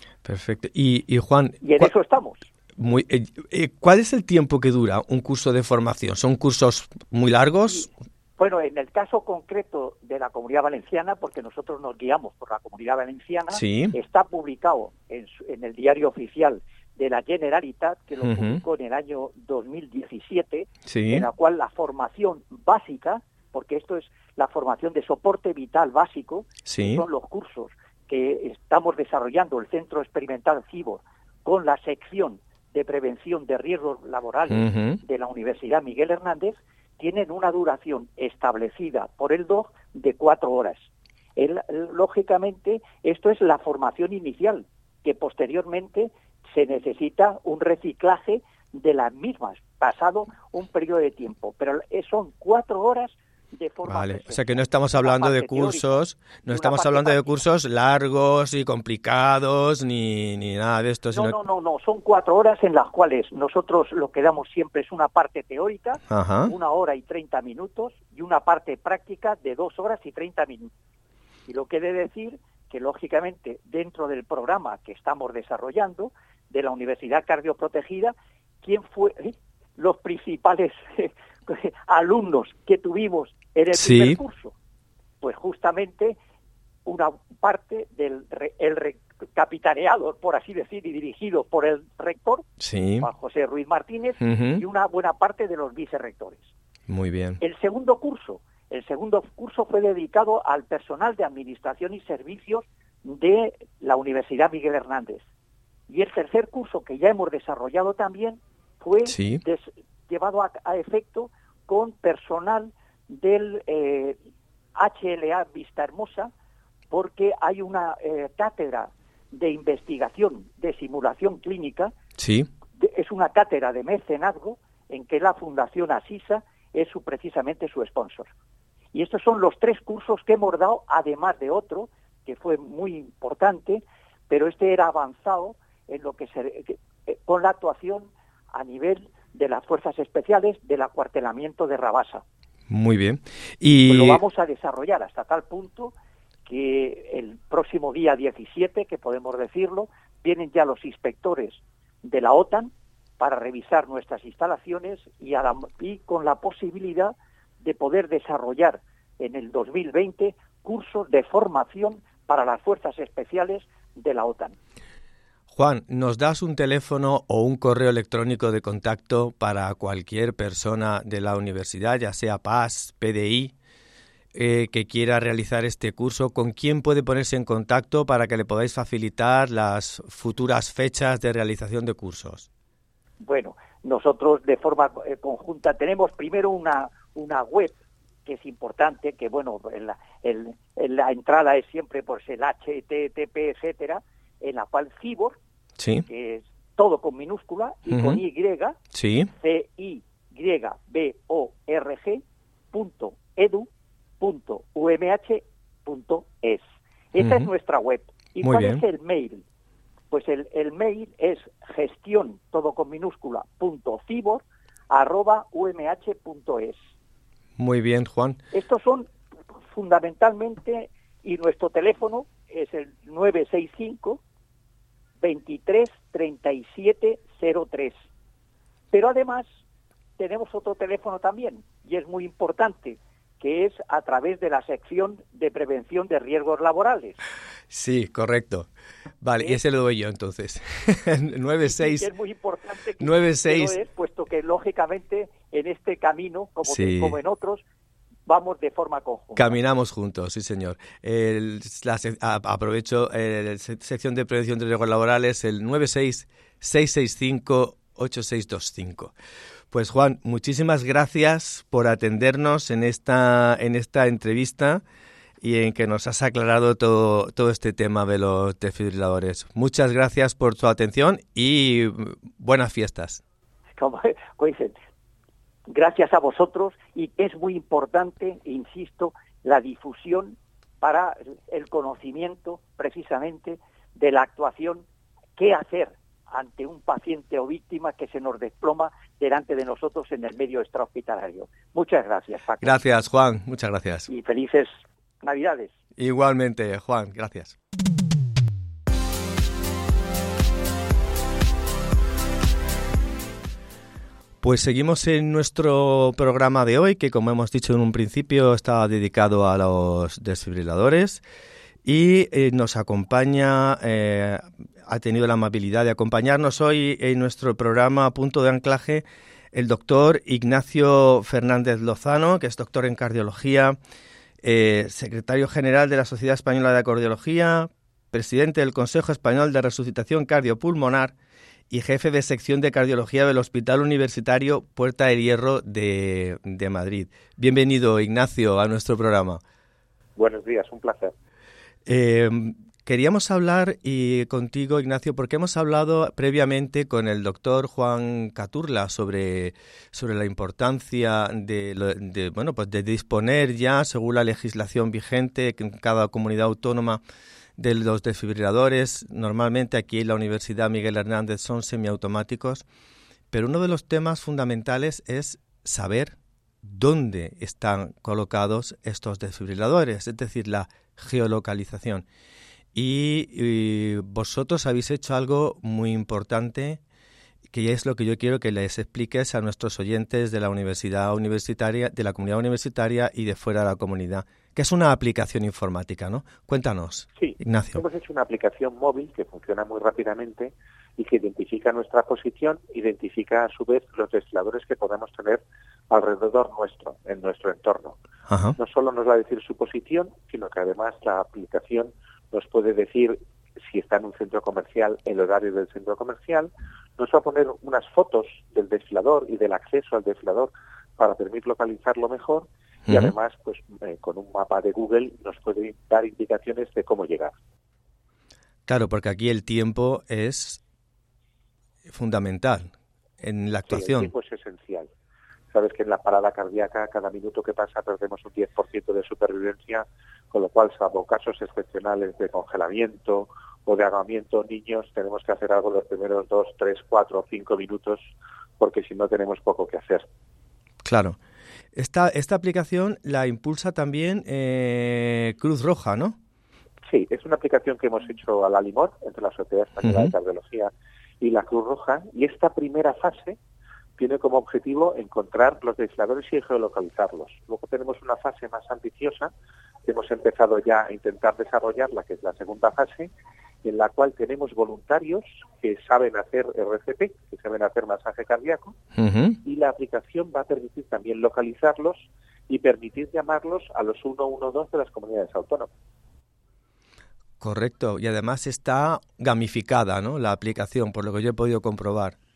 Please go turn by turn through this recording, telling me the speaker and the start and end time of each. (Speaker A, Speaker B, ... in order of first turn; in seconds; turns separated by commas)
Speaker A: 0.2-1.9, Speaker B: 1.6-2.5, Speaker A: 2.8-7.9, Speaker B: 7.7-57.3, Speaker A: 13.5-13.9, Speaker A: 18.2-18.6, Speaker A: 20.9-21.3, Speaker A: 26.6-27.1, Speaker A: 34.5-35.0, Speaker A: 53.9-61.4, Speaker B: 61.1-70.7, Speaker A: 66.1-66.5, Speaker B: 71.5-84.5, Speaker A: 83.7-84.2, Speaker B: 85.2-86.2, Speaker B: 86.8-96.5, Speaker A: 92.6-93.1, Speaker A: 94.2-94.6, Speaker A: 96.9-97.4, Speaker B: 97.4-105.2, Speaker B: 105.9-114.2, Speaker A: 109.1-109.4, Speaker B: 114.8-116.3, Speaker B: 116.9-121.9, Speaker A: 122.2-122.5, Speaker B: 122.8-128.3, Speaker B: 128.9-142.2, Speaker A: 142.7-144.2, Speaker B: 143.8-145.9, Speaker B: 146.4-164.6, Speaker A: 165.5-173.5, Speaker A: 174.3-182.5, Speaker B: 183.2-195.4, Speaker A: 195.8-196.0, Speaker B: 196.1-198.8, Speaker A: 197.9-198.2, Speaker A: 198.9-199.3, Speaker B: 199.3-203.7, Speaker B: 204.2-209.4, Speaker A: 207.2-207.5, Speaker A: 208.4-208.8, Speaker B: 210.1-216.8, Speaker A: 217.6-218.4, Speaker B: 218.5-224.2, Speaker B: 225.2-227.9, Speaker B: 228.9-229.5, Speaker B: 230.2-237.2, Speaker A: 237.7-238.7, Speaker A: 239.2-242.1, Speaker B: 241.6-247.6, Speaker A: 243.0-243.8, Speaker A: 246.7-247.2, Speaker B: 248.3-249.6, Speaker A: 249.3-259.1, Speaker A: 259.7-264.8, Speaker A: 265.4-273.2, Speaker B: 273.8-274.8, Speaker B: 275.7-284.9, Speaker B: 285.4-292.8, Speaker A: 292.6-294.1, Speaker B: 294.1-295.7, Speaker A: 296.0-297.6, Speaker A: 304.4-311.2, Speaker A: 311.8-323.8, Speaker A: 324.4-331.1, Speaker A: 331.7-339.4, Speaker C: 340.1-341.1, Speaker A: 341.9-357.0, Speaker A: 357.6-362.6, Speaker A: 363.3-372.0, Speaker A: 372.7-376.8, Speaker A: 377.5-387.8, Speaker C: 387.2-398.0, Speaker A: 398.3-398.6, Speaker C: 398.6-417.3, Speaker A: 412.9-413.1, Speaker A: 418.7-420.6, Speaker A: 421.9-424.1, Speaker C: 423.7-424.9, Speaker C: 425.5-440.1, Speaker A: 440.8-441.2, Speaker A: 441.7-446.2, Speaker C: 446.9-453.4, Speaker A: 449.8-450.1, Speaker C: 454.0-459.3, Speaker C: 459.8-463.1, Speaker C: 463.6-468.8, Speaker A: 468.9-469.4, Speaker C: 469.4-475.7, Speaker A: 477.4-482.1